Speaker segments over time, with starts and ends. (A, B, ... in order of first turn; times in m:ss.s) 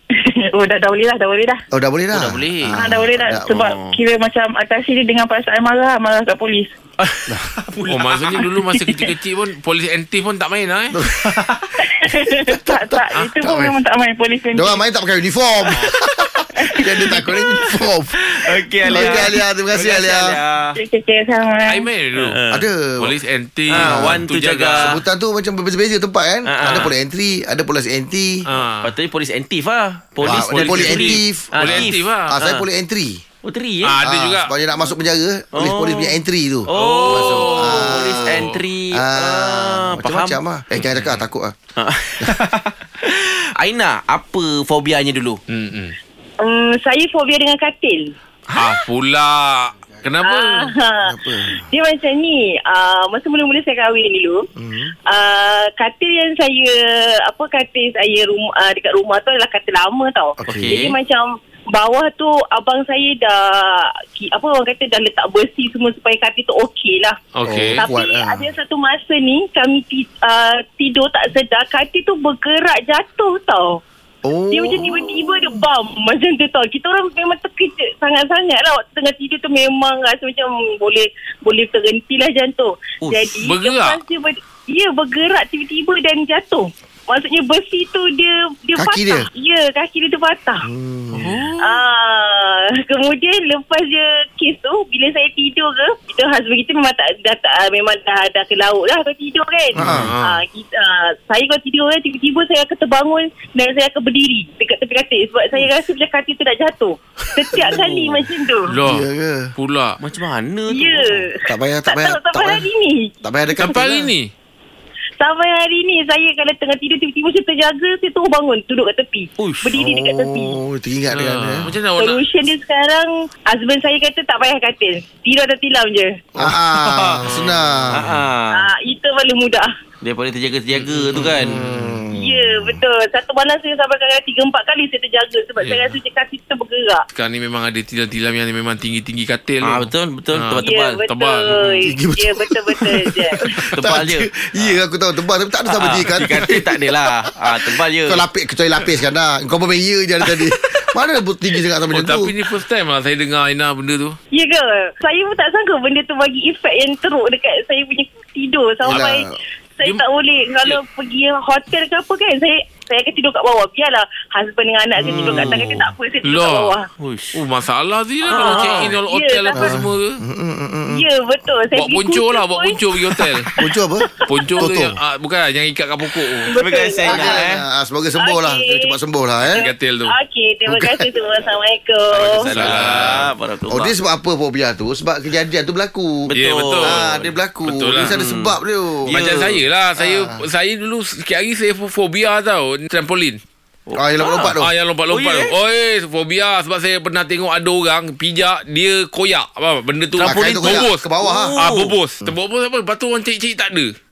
0:00.1-0:01.6 A
0:01.7-0:03.7 B
0:02.1-0:02.8 C
0:02.8-0:06.7 A
0:03.5-0:04.0 C
0:07.0-0:08.9 C
0:07.3-0:07.6 B
0:07.9-0:11.0 D
0:10.9-0:11.5 B
0:11.2-0:11.6 C
0:11.8-0:14.8 A
0:12.4-0:13.7 B
0:14.5-0:18.2 B
0:16.6-0:17.4 A
0:17.1-0:17.4 C
0:18.2-0:20.8 C
0:18.8-0:19.2 A
0:18.8-0:20.4 B
0:20.8-0:21.9 A
0:21.7-0:22.4 D
0:22.2-0:22.7 C
0:22.5-0:23.2 B
0:23.0-0:25.0 D
0:23.7-0:24.9 C
0:23.8-0:24.2 B
0:24.7-0:28.4 B
0:26.4-0:26.9 C
0:26.6-0:26.9 D
0:28.4-0:28.9 D
0:28.8-0:32.6 C
0:30.2-0:32.4 D
0:30.2-0:33.2 B
0:33.4-0:34.0 C
0:33.8-0:34.5 D
0:34.0-0:41.5 B
0:35.5-0:40.4 C
0:36.7-0:38.6 D
0:40.8-0:41.2 D
0:41.8-0:45.4 C
0:45.5-0:46.0 D
0:46.4-0:48.1 E
0:48.6-0:50.7 D
0:50.2-0:54.4 E
0:51.0-0:51.6 B
0:54.5-0:54.9 B
0:55.1-1:07.2 E
1:00.4-1:00.8 B
1:00.5-1:00.9 C
1:07.3-1:07.8 D
1:07.4-1:08.5 B
1:07.8-1:13.8 E
1:14.2-1:15.6 B
1:14.5-1:30.7 E
1:23.0-1:23.3 C
1:23.4-1:24.0 D
1:28.8-1:29.3 B
1:30.6-1:31.4 B
1:31.2-1:31.8 D
1:31.6-1:48.8 E
1:39.8-1:40.1 B
1:39.8-1:40.4 D
1:47.6-1:48.2 C
1:48.7-1:50.0 D
1:48.8-1:49.5 B
1:50.0-1:51.2 C
1:50.7-1:53.1 E
1:51.4-1:52.7 B
1:53.2-1:54.1 B
1:53.6-1:54.3 D
1:55.2-2:00.6 E
1:59.4-1:59.7 C
1:59.7-2:01.7 B
2:01.1-2:02.2 D
2:02.0-2:06.2 E
2:06.4-2:08.1 B
2:06.4-2:07.2 C
2:07.2-2:08.1 D
2:07.9-2:08.7 C
2:08.5-2:09.7 E
2:10.0-2:11.6 C
2:10.7-2:12.0 D
2:11.4-2:12.8 B
2:12.1-2:17.0 E
2:15.6-2:16.0 D
2:17.1-2:21.9 D
2:19.6-2:21.0 C
2:20.6-2:23.6 E
2:21.8-2:26.6 B
2:23.7-2:24.3 C
2:25.7-2:28.2 C
2:27.6-2:32.3 B
2:31.9-2:34.2 D
2:34.3-2:46.9 E
2:38.8-2:39.1 D
2:38.8-2:39.3 B
2:45.0-2:46.8 D
2:45.1-2:45.9 B
2:47.0-2:47.4 C
2:47.3-2:50.2 D
2:48.2-2:49.7 E
2:48.3-2:48.9 C
2:49.5-2:51.0 B
2:50.9-2:54.7 E
2:51.7-2:53.5 D
2:53.6-2:55.0 B
2:54.3-2:56.5 D
2:56.4-2:57.5 E
2:56.5-2:57.6 C
2:57.0-2:59.7 B
2:58.2-2:59.0 E
2:59.5-3:00.1 D
2:59.6-3:02.5 E
3:00.7-3:01.1 B
3:02.1-3:03.9 C
3:02.4-3:03.3 D
3:02.6-3:06.3 B
3:06.3-3:07.2 C
3:06.4-3:07.1 D
3:06.8-3:09.2 B
3:07.6-3:08.1 D
3:08.0-3:09.6 C
3:09.1-3:13.4 D
3:10.0-3:10.4 B
3:13.9-3:14.6 C
3:14.0-3:14.7 B
3:14.6-3:21.1 D
3:15.1-3:15.5 C
3:20.2-3:21.9 C
3:20.2-3:21.6 B
3:21.6-3:23.9 D